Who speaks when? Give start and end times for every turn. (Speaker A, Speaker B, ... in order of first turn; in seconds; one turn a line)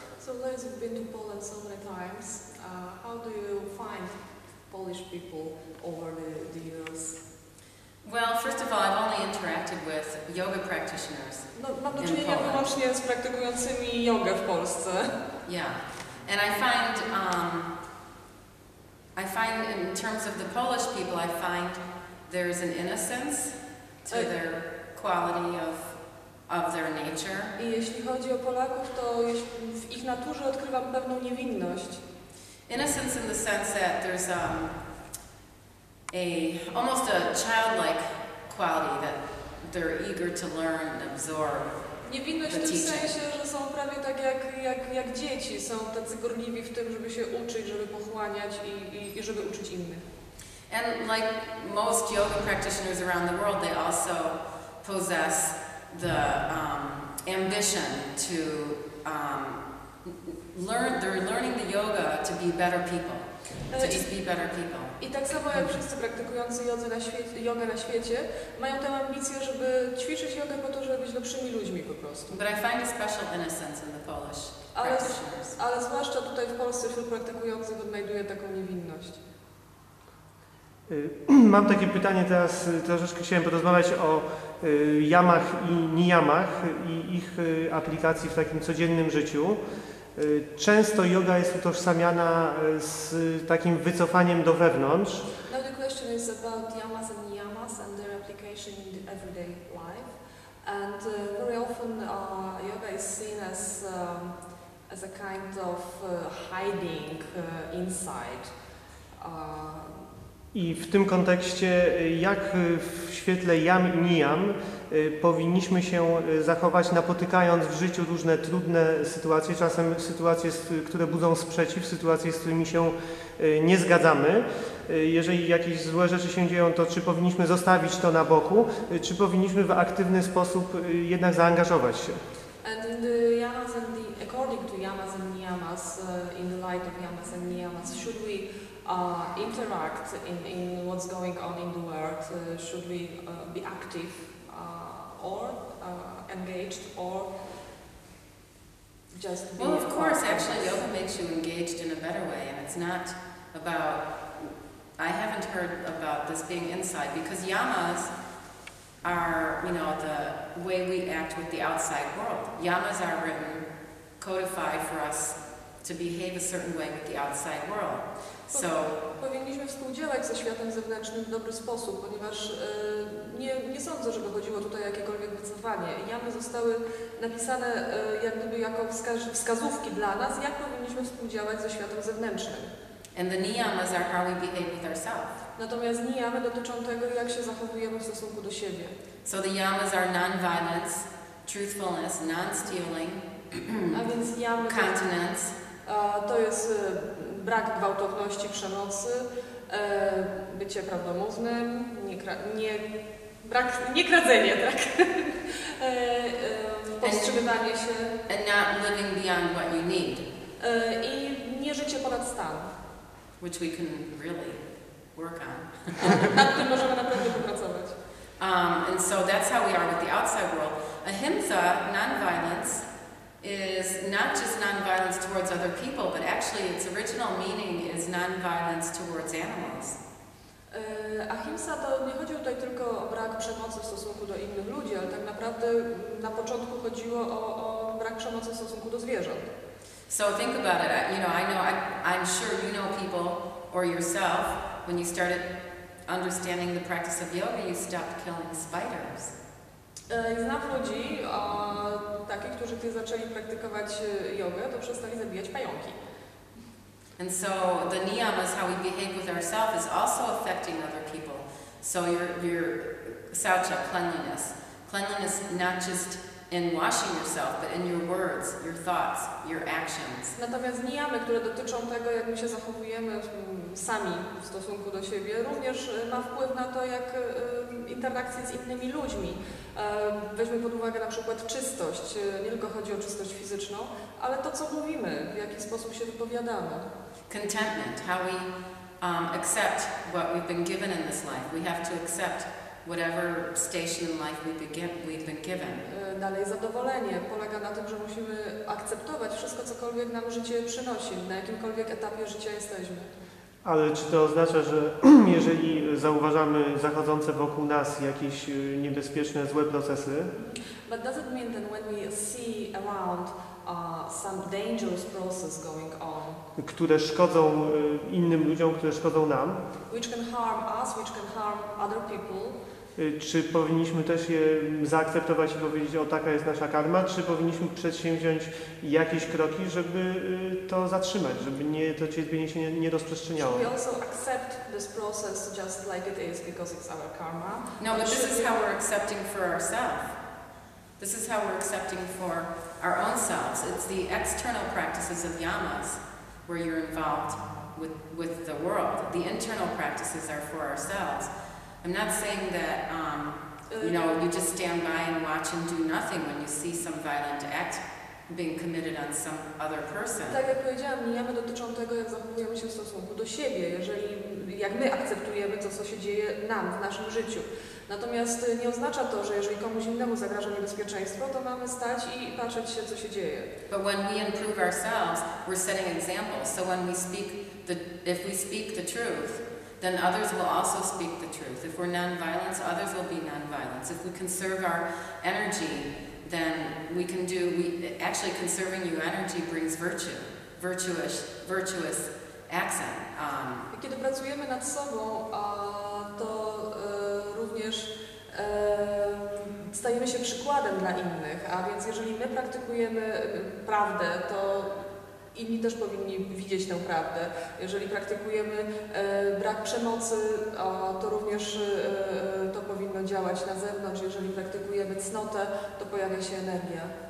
Speaker A: 0.2-7.2
Speaker B: 8.0-12.7
Speaker A: 11.5-15.1
Speaker B: 15.5-17.7
Speaker B: 19.2-27.5
Speaker A: 27.6-32.0
Speaker B: 32.7-34.8
Speaker B: 36.1-41.8
Speaker A: 42.0-50.0
Speaker B: 42.4-43.1
Speaker B: 50.7-65.0
Speaker A: 63.7-64.1
Speaker A: 65.0-72.4
Speaker B: 72.3-75.6
Speaker A: 74.7-79.2
Speaker C: 80.9-89.6
Speaker C: 90.2-95.2
Speaker A: 95.5-104.4
Speaker A: 104.9-108.5
Speaker A: 109.2-110.1
Speaker C: 110.5-132.2
Speaker A: 132.6-147.3
Speaker A: 149.1-150.8
Speaker B: 149.6-158.1
Speaker B: 159.0-163.7
Speaker B: 164.2-169.0
Speaker A: 168.5-182.7
Speaker B: 183.2-185.4
Speaker A: 185.6-188.9
Speaker B: 189.2-194.1
Speaker A: 193.9-195.0
Speaker B: 194.6-195.6
Speaker A: 195.8-202.9
Speaker A: 203.4-208.1
Speaker B: 207.0-207.5
Speaker B: 208.3-210.3
Speaker A: 210.6-212.7
Speaker B: 213.4-214.6
Speaker B: 215.1-216.3
Speaker A: 216.2-217.9
Speaker B: 218.4-222.9
Speaker B: 223.4-230.0
Speaker A: 230.7-239.5
Speaker B: 240.1-245.5
Speaker B: 246.1-249.3
Speaker A: 250.1-256.0
Speaker B: 257.2-270.3
Speaker A: 270.3-286.9
Speaker B: 287.3-295.9
Speaker A: 295.9-303.1
Speaker C: 303.6-310.3
Speaker A: 310.4-316.4
Speaker C: 316.6-319.6
Speaker A: 319.9-322.6
Speaker C: 323.0-333.7
Speaker A: 333.4-338.6
Speaker B: 337.8-340.2
Speaker B: 341.0-351.3
Speaker B: 351.8-360.4
Speaker A: 353.7-354.2
Speaker A: 360.3-373.5
Speaker B: 373.7-393.7
Speaker A: 393.7-416.9